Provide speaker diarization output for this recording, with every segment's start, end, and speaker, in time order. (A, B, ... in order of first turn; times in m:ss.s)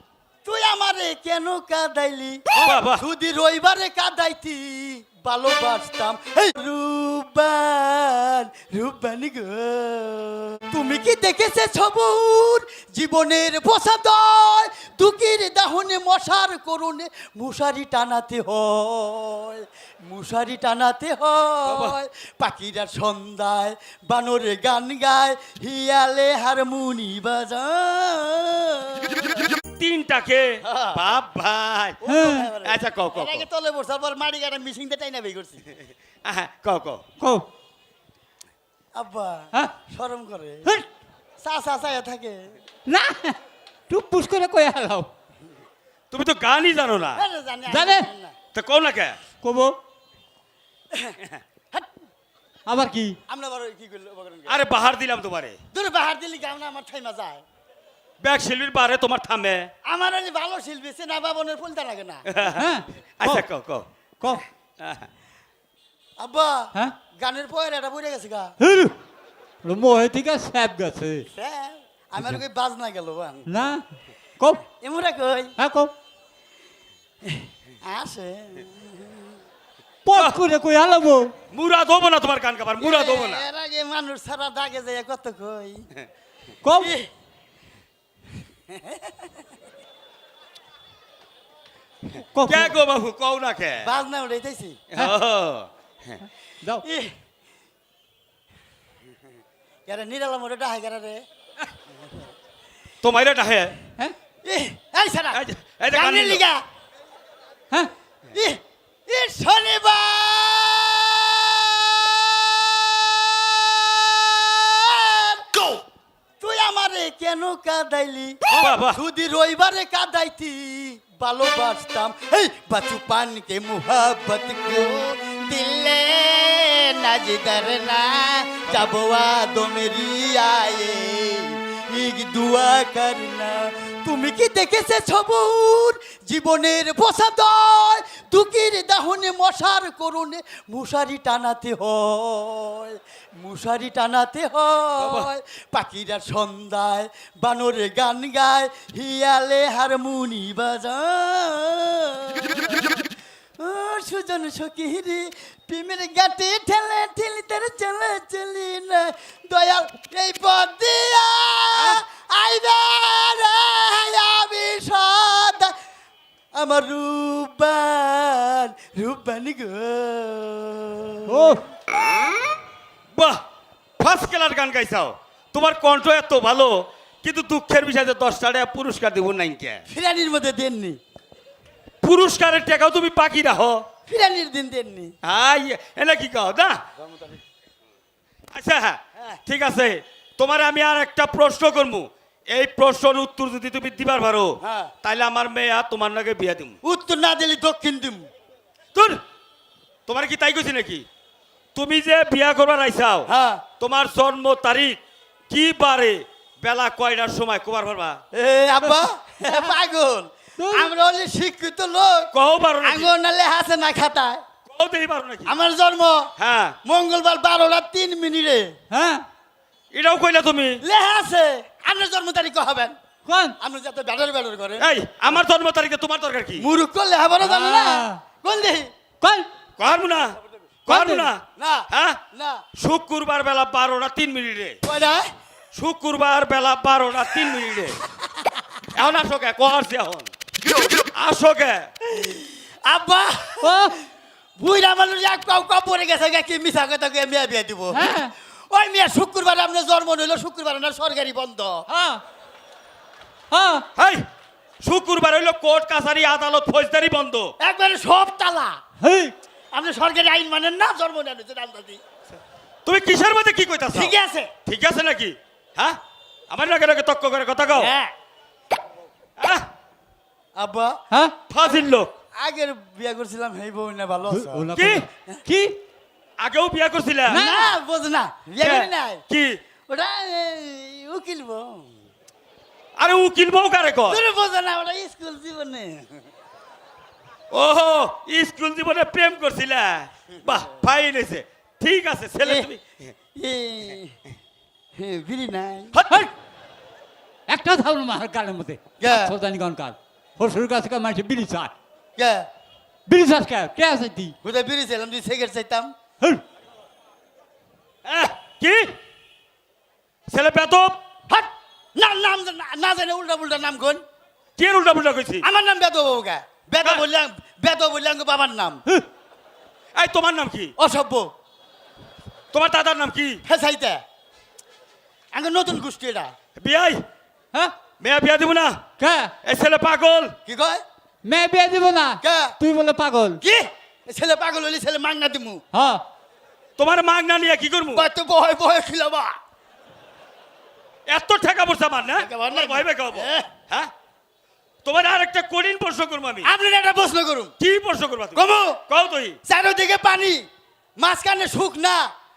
0:00.4-0:29.5 A
0:02.5-0:03.0 B
0:21.6-0:22.0 B
0:29.8-0:32.0 B
0:30.6-0:31.0 A
0:32.0-0:35.6 A
0:32.1-0:32.5 C
0:32.6-0:33.5 B
0:36.2-0:37.0 B
0:37.2-0:37.5 C
0:39.0-0:40.7 A
0:41.4-0:42.6 A
0:42.9-0:43.4 C
0:43.9-0:45.1 C
0:46.1-0:47.2 B
0:47.2-0:48.4 A
0:47.7-0:48.1 C
0:48.5-0:49.2 B
0:49.4-0:49.8 C
0:52.7-0:53.2 C
0:53.3-0:54.6 A
0:54.5-0:55.6 B
0:55.7-0:57.4 A
0:58.2-0:59.7 B
0:59.8-1:02.3 A
1:02.3-1:03.9 B
1:02.5-1:03.4 C
1:04.2-1:04.4 C
1:04.8-1:05.1 B
1:06.2-1:08.6 A
1:08.6-1:08.9 C
1:09.6-1:11.3 C
1:11.3-1:13.5 A
1:13.5-1:13.8 C
1:14.8-1:15.6 A
1:15.6-1:15.9 C
1:17.3-1:19.4 A
1:20.0-1:21.3 C
1:20.1-1:20.4 B
1:21.5-1:23.4 B
1:22.8-1:25.9 A
1:26.6-1:26.9 C
1:26.8-1:27.1 A
1:28.7-1:29.3 A
1:32.1-1:32.7 C
1:32.5-1:33.9 B
1:33.8-1:34.8 A
1:34.9-1:36.2 B
1:36.8-1:37.1 A
1:39.9-1:41.2 A
1:43.0-1:43.8 B
1:44.4-1:46.6 A
1:45.3-1:46.4 B
1:48.3-1:55.5 A
1:56.4-2:33.0 A
1:58.5-1:59.0 B
2:25.0-2:25.3 B
2:33.6-2:45.7 A
2:46.6-2:51.6 A
2:51.3-2:51.6 C
2:53.2-2:53.4 B
2:54.0-2:59.8 B
2:59.9-3:01.0 A
3:02.0-3:03.8 B
3:04.1-3:05.1 A
3:05.2-3:06.8 B
3:07.0-3:07.4 A
3:08.5-3:16.8 B
3:14.6-3:14.9 A
3:16.8-3:18.3 A
3:19.0-3:19.2 B
3:20.1-3:21.0 B
3:21.8-3:23.3 B
3:23.3-3:23.6 A
3:23.8-3:28.2 B
3:28.3-3:32.3 A
3:29.5-3:29.7 C
3:30.6-3:30.9 C
3:32.3-3:33.1 B
3:32.8-3:34.4 A
3:34.7-3:35.5 B
3:35.5-3:36.3 A
3:36.4-3:36.8 B
3:36.8-3:38.7 A
3:38.9-3:39.3 C
3:39.9-3:40.8 B
3:40.8-3:43.0 A
3:43.3-3:43.6 C
3:43.6-3:44.9 A
3:44.8-3:46.7 B
3:46.6-3:48.9 A
3:47.4-3:48.2 C
3:49.2-3:49.5 C
3:49.8-3:52.2 B
3:50.9-3:52.6 A
3:52.8-3:54.8 B
3:54.8-3:55.3 A
3:55.8-3:58.0 B
3:59.0-4:00.3 B
4:01.1-4:01.9 B
4:02.1-4:04.0 A
4:03.6-4:04.0 C
4:04.6-4:08.2 A
4:07.9-4:08.3 C
4:08.7-4:11.8 A
4:11.9-4:12.2 C
4:13.5-4:13.9 C
4:14.0-4:14.2 B
4:14.8-4:17.5 B
4:17.6-4:18.8 A
4:19.0-4:19.3 C
4:19.7-4:22.0 A
4:22.8-4:24.1 B
4:23.9-4:24.5 A
4:24.7-4:26.0 B
4:26.5-4:27.9 B
4:27.8-4:28.1 A
4:29.4-4:29.7 B
4:30.6-4:31.0 A
4:31.5-4:32.1 B
4:32.4-4:34.7 A
4:34.3-4:35.8 C
4:34.7-4:35.1 B
4:36.4-4:37.4 B
4:37.3-4:37.8 C
4:37.3-4:39.2 A
4:38.6-4:39.6 B
4:39.9-4:41.9 A
4:43.0-4:44.2 B
4:44.1-4:46.2 A
4:47.5-4:53.1 B
4:52.4-4:52.7 A
4:53.4-4:54.2 A
4:55.0-4:56.0 A
4:56.0-4:56.3 C
4:57.5-5:01.7 C
4:59.0-4:59.4 A
5:02.2-5:02.5 A
5:03.1-5:04.3 C
5:04.4-5:05.9 A
5:08.0-5:09.0 B
5:10.3-5:11.0 B
5:11.3-5:14.0 A
5:14.6-5:15.5 B
5:15.4-5:18.8 A
5:20.0-5:20.8 B
5:20.8-5:21.3 A
5:22.5-5:23.4 B
5:23.5-5:24.0 A
5:25.3-5:26.3 A
5:26.6-5:27.0 B
5:28.0-5:28.8 B
5:29.0-5:29.3 C
5:29.4-5:30.4 B
5:30.5-5:30.8 A
5:31.2-5:33.4 C
5:32.2-5:32.6 A
5:33.4-5:35.6 A
5:35.7-5:36.0 C
5:36.8-5:38.1 B
5:38.0-5:39.3 A
5:41.1-5:43.9 B
5:42.2-5:43.5 A
5:44.8-5:46.5 B
5:46.4-5:47.5 A
5:47.6-5:49.4 B
5:48.4-5:48.8 A
5:49.5-5:50.5 A
5:51.0-5:52.1 A